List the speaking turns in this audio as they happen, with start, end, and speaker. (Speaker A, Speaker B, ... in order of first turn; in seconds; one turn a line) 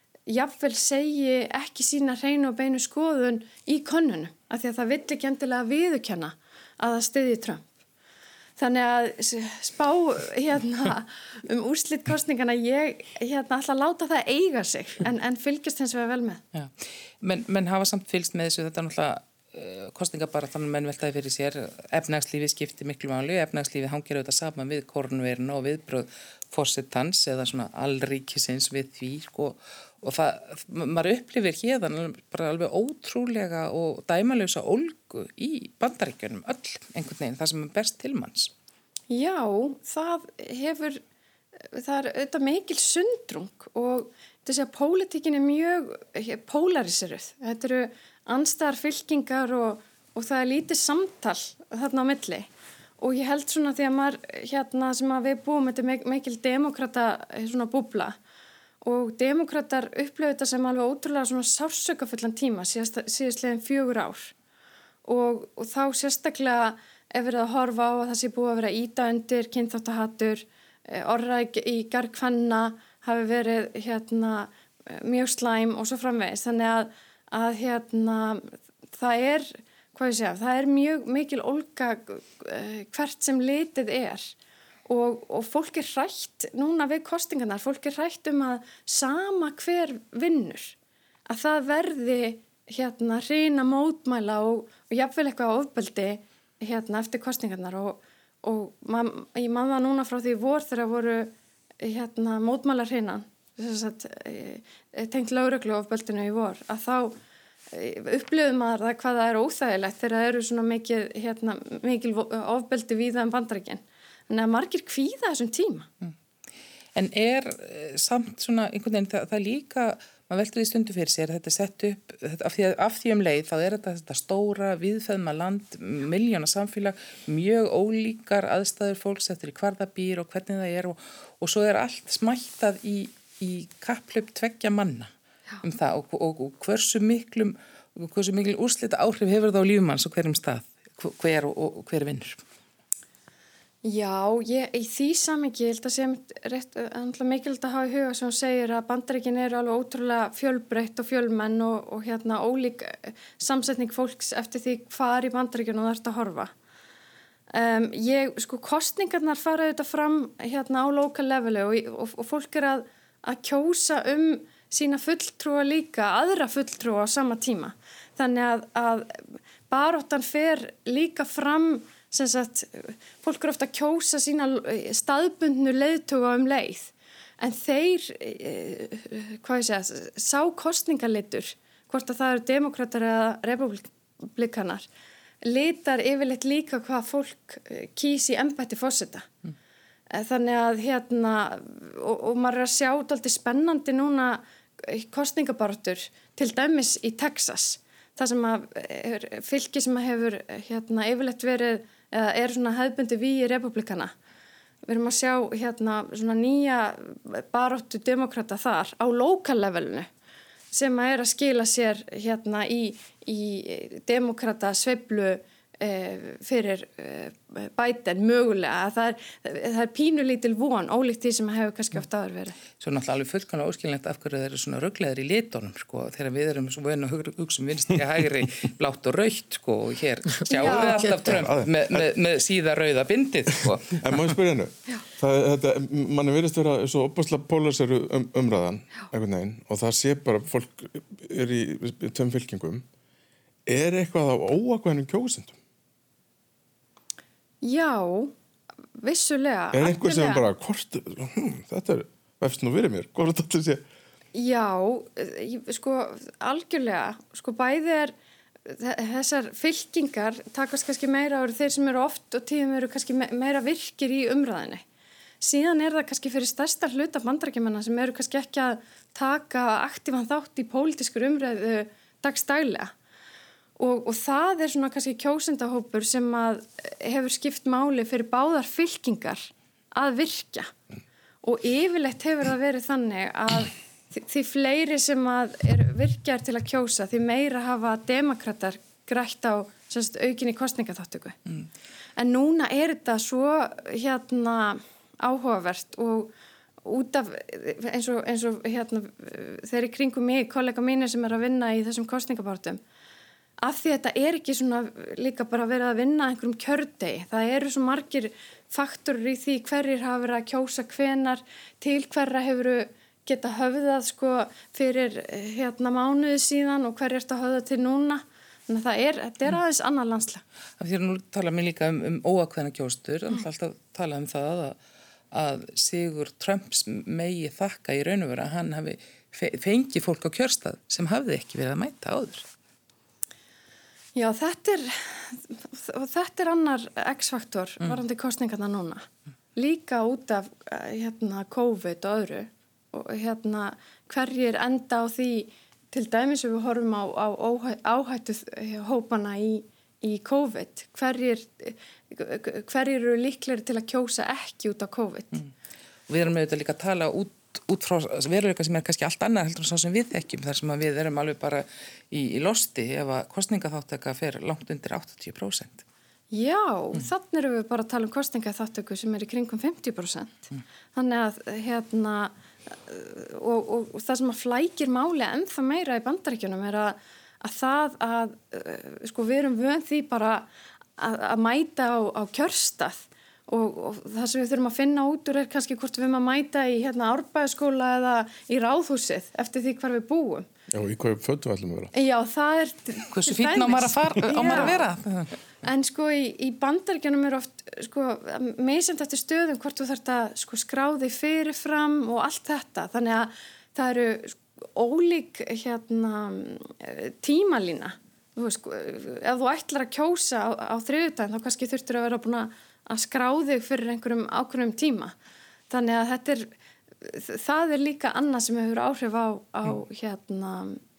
Speaker A: 0.3-7.7
Speaker A: 8.6-16.4
Speaker B: 16.5-38.5
Speaker A: 39.1-41.0
Speaker A: 41.6-52.5
Speaker A: 53.0-58.1
Speaker A: 58.8-64.3
Speaker A: 65.0-84.3
Speaker A: 84.9-90.8
Speaker A: 91.3-107.2
Speaker A: 107.7-115.9
Speaker B: 116.9-142.4
Speaker A: 143.8-156.5
Speaker A: 157.5-184.9
Speaker A: 185.4-189.3
Speaker A: 190.1-204.1
Speaker A: 204.8-210.1
Speaker A: 210.7-222.6
Speaker B: 222.8-234.3
Speaker A: 230.5-231.2
Speaker C: 230.6-232.1
Speaker C: 233.6-242.8
Speaker C: 243.7-245.6
Speaker A: 247.6-248.3
Speaker A: 249.0-250.4
Speaker C: 249.7-253.8
Speaker A: 254.3-258.1
Speaker A: 258.6-264.8
Speaker A: 265.4-272.9
Speaker A: 273.8-280.7
Speaker A: 281.4-291.4
Speaker A: 292.2-296.3
Speaker A: 296.8-302.8
Speaker A: 303.6-320.4
Speaker B: 320.8-324.8
Speaker B: 325.3-332.4
Speaker A: 334.1-355.4
Speaker B: 356.1-365.8
Speaker A: 366.3-390.5
Speaker C: 390.7-391.9
Speaker A: 391.9-394.9
Speaker B: 393.1-395.4
Speaker A: 395.6-415.1
Speaker A: 415.7-416.5
Speaker A: 417.0-420.8